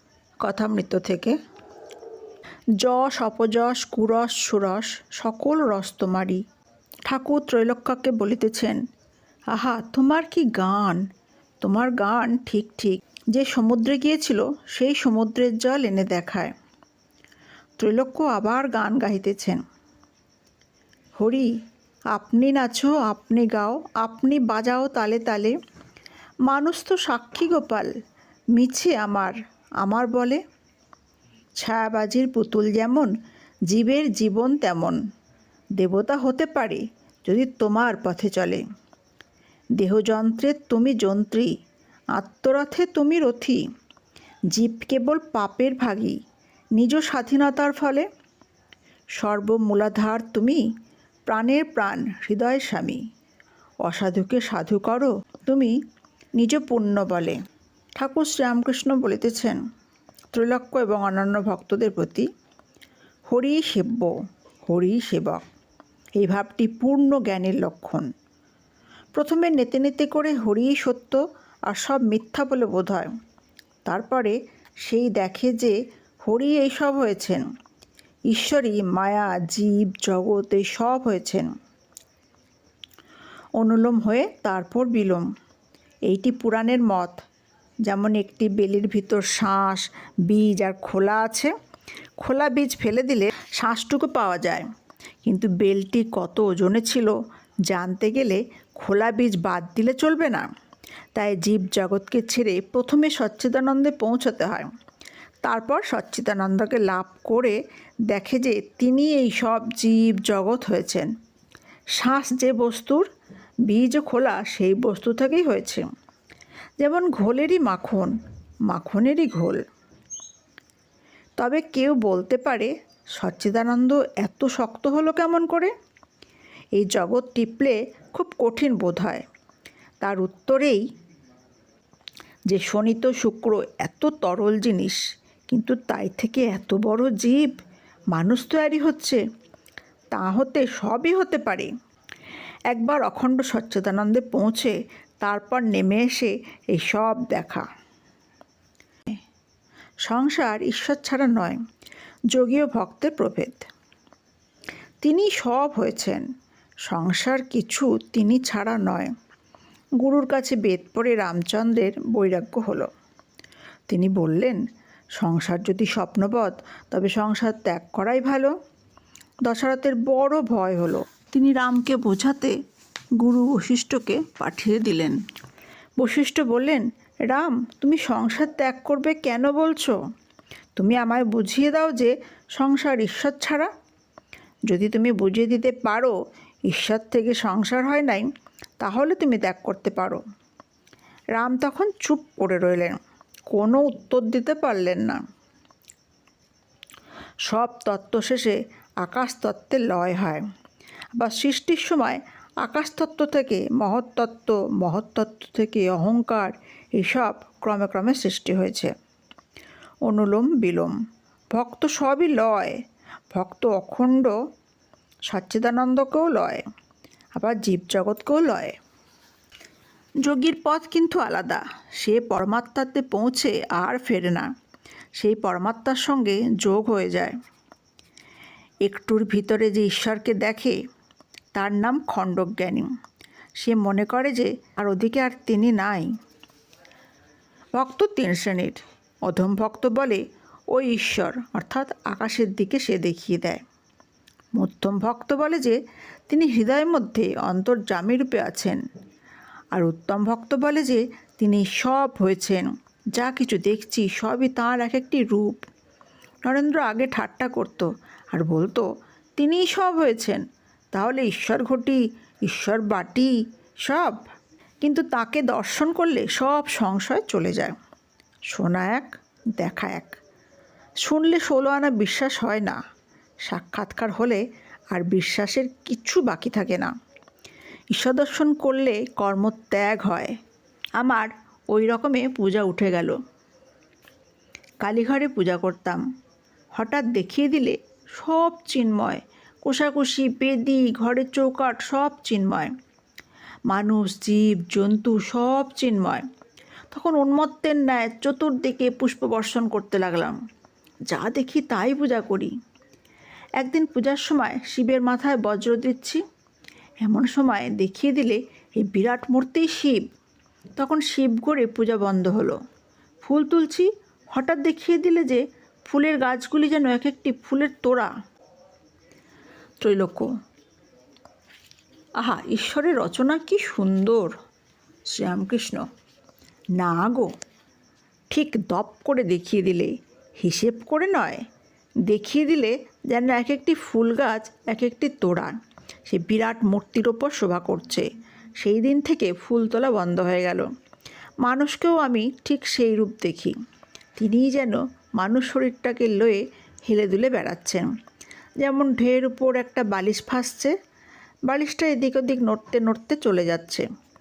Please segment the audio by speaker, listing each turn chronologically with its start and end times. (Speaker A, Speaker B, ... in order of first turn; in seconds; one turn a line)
Speaker A: 0.4-1.4
Speaker A: 2.8-6.4
Speaker A: 7.0-8.8
Speaker A: 9.5-11.0
Speaker A: 11.6-16.5
Speaker A: 17.8-19.6
Speaker A: 21.2-21.5
Speaker A: 22.1-25.5
Speaker A: 26.5-27.9
Speaker A: 28.5-30.4
Speaker A: 31.6-33.1
Speaker A: 33.7-35.0
Speaker A: 35.8-38.6
Speaker A: 39.8-41.5
Speaker A: 42.1-43.6
Speaker A: 44.5-46.2
Speaker A: 46.8-48.1
Speaker A: 49.2-50.6
Speaker A: 51.3-53.0
Speaker A: 53.8-55.8
Speaker A: 56.4-57.4
Speaker A: 58.0-59.6
Speaker A: 60.3-62.3
Speaker A: 63.3-64.1
Speaker A: 64.6-65.4
Speaker A: 66.2-68.1
Speaker A: 69.2-73.1
Speaker A: 73.8-77.5
Speaker A: 78.3-81.5
Speaker A: 83.6-85.3
Speaker A: 86.1-87.2
Speaker A: 87.9-91.5
Speaker A: 92.2-94.7
Speaker A: 95.2-97.1
Speaker A: 97.7-100.5
Speaker A: 101.1-104.7
Speaker A: 105.4-111.1
Speaker A: 112.0-113.1
Speaker A: 113.7-115.8
Speaker A: 116.8-118.2
Speaker A: 118.7-119.6
Speaker A: 121.4-125.7
Speaker A: 126.7-129.2
Speaker A: 130.0-130.8
Speaker A: 132.5-137.5
Speaker A: 138.1-139.2
Speaker A: 140.1-141.7
Speaker A: 142.7-147.7
Speaker A: 150.1-151.6
Speaker A: 152.3-153.7
Speaker A: 155.0-156.2
Speaker A: 156.8-159.1
Speaker A: 160.0-162.9
Speaker A: 163.9-164.6
Speaker A: 165.2-168.5
Speaker A: 169.4-172.6
Speaker A: 173.2-175.2
Speaker A: 176.0-179.9
Speaker A: 180.8-183.7
Speaker A: 184.7-186.2
Speaker A: 186.7-188.3
Speaker A: 188.8-190.2
Speaker A: 191.3-193.0
Speaker A: 193.5-195.2
Speaker A: 197.5-200.4
Speaker A: 201.2-208.9
Speaker A: 210.1-210.9
Speaker A: 211.5-212.8
Speaker A: 213.3-214.3
Speaker A: 215.3-216.6
Speaker A: 217.3-218.8
Speaker A: 220.2-224.5
Speaker A: 225.2-227.4
Speaker A: 228.8-230.8
Speaker A: 231.5-232.9
Speaker A: 233.6-236.1
Speaker A: 237.7-243.6
Speaker A: 244.5-245.8
Speaker A: 246.3-248.8
Speaker A: 249.7-255.6
Speaker A: 256.4-260.4
Speaker A: 260.9-264.2
Speaker A: 264.8-267.8
Speaker A: 268.5-270.2
Speaker A: 271.0-272.8
Speaker A: 273.4-276.9
Speaker A: 277.9-280.4
Speaker A: 281.0-283.2
Speaker A: 284.8-286.0
Speaker A: 286.7-292.7
Speaker A: 293.7-296.2
Speaker A: 296.9-300.4
Speaker A: 301.1-302.5
Speaker A: 303.6-306.2
Speaker A: 307.0-310.0
Speaker A: 310.8-312.6
Speaker A: 313.2-318.1
Speaker A: 319.8-320.3
Speaker A: 322.2-324.3
Speaker A: 325.1-325.9
Speaker A: 326.8-327.3
Speaker A: 328.3-331.4
Speaker A: 332.1-335.6
Speaker A: 336.1-340.7
Speaker A: 341.4-343.5
Speaker A: 344.2-347.9
Speaker A: 348.6-350.7
Speaker A: 351.5-353.9